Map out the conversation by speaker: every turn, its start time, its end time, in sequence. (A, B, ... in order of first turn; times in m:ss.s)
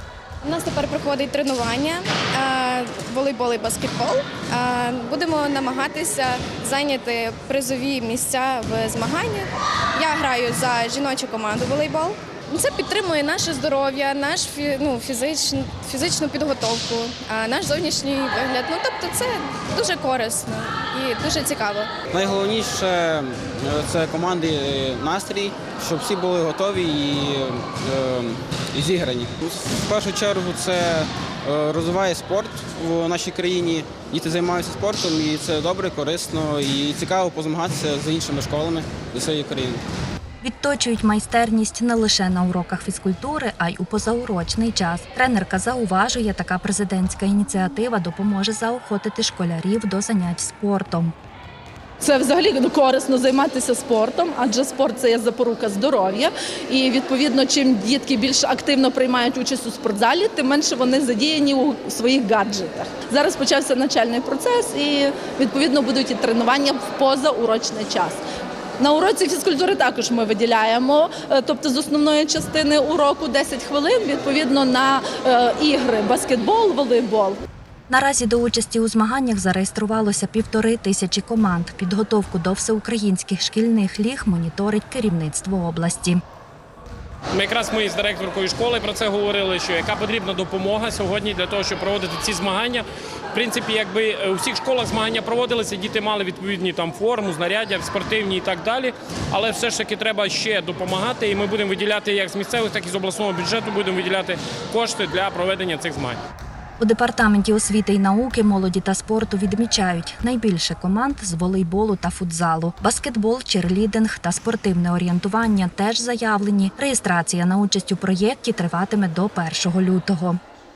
0:00.4-0:21.9 A
0:22.1-0:39.8 B
0:40.4-0:51.1 C
0:52.0-1:08.2 D
1:08.8-1:17.4 D
1:17.9-1:26.2 C
1:27.3-1:46.2 E
1:46.8-2:00.4 C